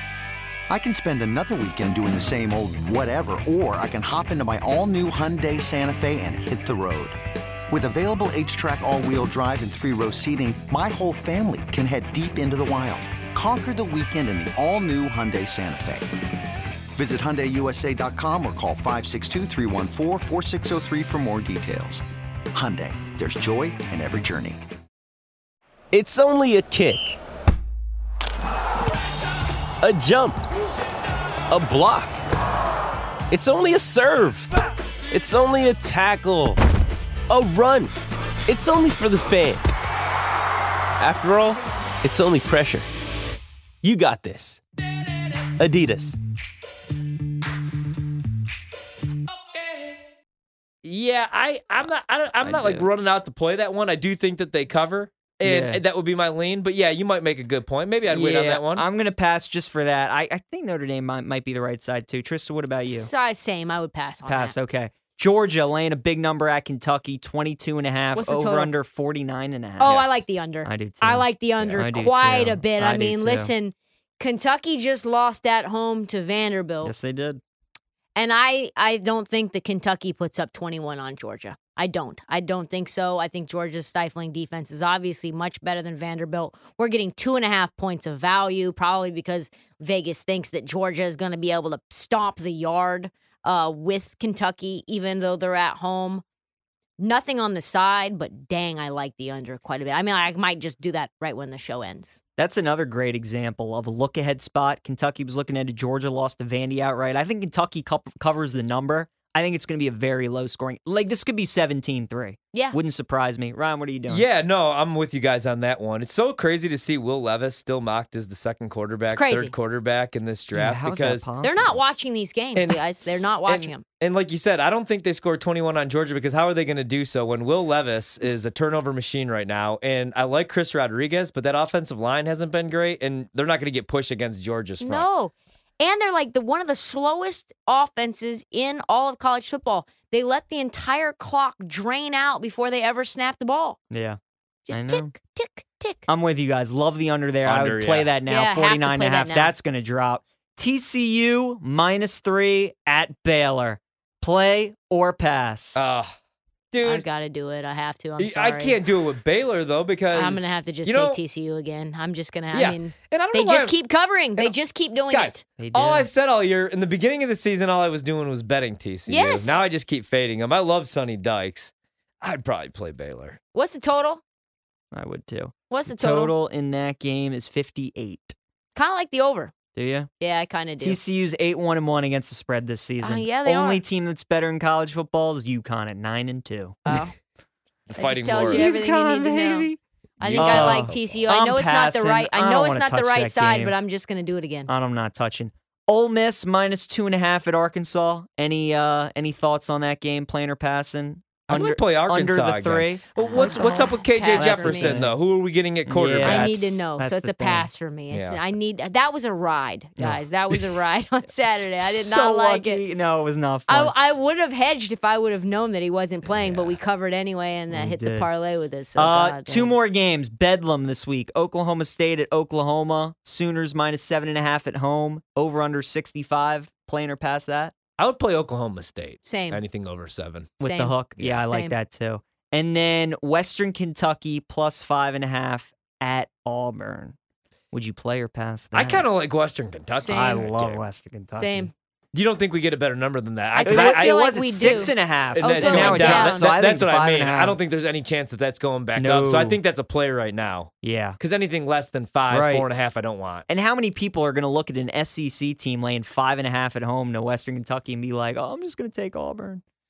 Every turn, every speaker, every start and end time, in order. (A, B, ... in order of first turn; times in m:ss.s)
0:00.7-0:07.1 A
0:07.8-0:16.0 A
0:17.0-0:22.0 A
0:22.6-0:24.5 A
0:25.9-0:27.2 B
0:29.8-0:30.4 B
0:31.5-0:32.2 B
0:33.3-0:34.5 B
0:35.1-0:36.6 B
0:37.3-0:37.9 B
0:38.5-0:39.9 B
0:41.0-0:42.9 B
0:43.8-0:44.6 B
0:45.6-0:46.2 B
0:50.8-0:58.8 C
0:52.4-0:52.9 D
0:55.4-0:55.8 D
0:58.1-1:03.1 D
1:02.9-1:04.5 E
1:04.2-1:10.0 D
1:08.1-1:08.7 E
1:09.8-1:16.9 E
1:09.8-1:10.1 C
1:10.6-1:13.5 D
1:16.8-1:17.4 D
1:18.1-1:36.2 E
1:37.0-1:42.2 E
1:42.4-1:54.2 D
1:52.5-1:52.8 E
1:54.1-2:01.3 C
1:59.1-1:59.5 E
2:00.5-2:01.8 D
2:01.4-2:03.8 E
2:02.5-2:02.8 C
2:03.4-2:15.1 C
2:14.8-2:23.8 E
2:23.9-2:24.2 D
2:24.6-2:26.1 E
2:24.7-2:25.1 D
2:26.1-2:35.8 D
2:27.4-2:28.2 C
2:28.2-2:29.5 E
2:35.8-2:36.1 C
2:36.7-2:37.0 C
2:36.8-2:38.8 E
2:38.2-2:41.2 C
2:40.1-2:45.4 E
2:42.5-2:43.7 C
2:45.1-2:53.4 C
2:45.6-2:46.1 D
2:49.1-2:49.6 E
2:53.5-2:54.2 E
2:54.9-2:58.3 D
2:55.7-2:56.3 E
2:58.7-2:59.5 E
2:59.7-3:00.1 D
3:00.2-3:01.0 E
3:00.8-3:06.8 D
3:03.0-3:03.8 E
3:06.8-3:07.1 E
3:07.9-3:08.7 C
3:07.9-3:14.7 E
3:08.4-3:09.8 D
3:10.2-3:11.3 C
3:10.3-3:13.8 D
3:14.7-3:25.2 D
3:21.5-3:26.6 C
3:23.4-3:24.9 E
3:25.8-3:27.7 D
3:26.2-3:32.8 E
3:28.1-3:28.4 C
3:31.8-3:33.9 D
3:33.7-3:39.8 E
3:36.3-3:36.7 C
3:37.7-3:38.3 D
3:39.0-3:47.7 D
3:48.0-3:50.6 C
3:49.2-3:49.6 E
3:50.6-3:51.8 E
3:50.6-3:57.2 D
3:51.2-3:51.4 C
3:57.7-3:59.0 D
3:58.7-4:00.8 C
3:59.9-4:00.3 E
4:00.1-4:01.7 D
4:01.3-4:01.7 E
4:02.1-4:13.4 C
4:03.5-4:06.5 E
4:03.6-4:07.6 D
4:09.0-4:09.6 D
4:10.8-4:11.2 D
4:12.3-4:12.6 D
4:13.5-4:19.6 D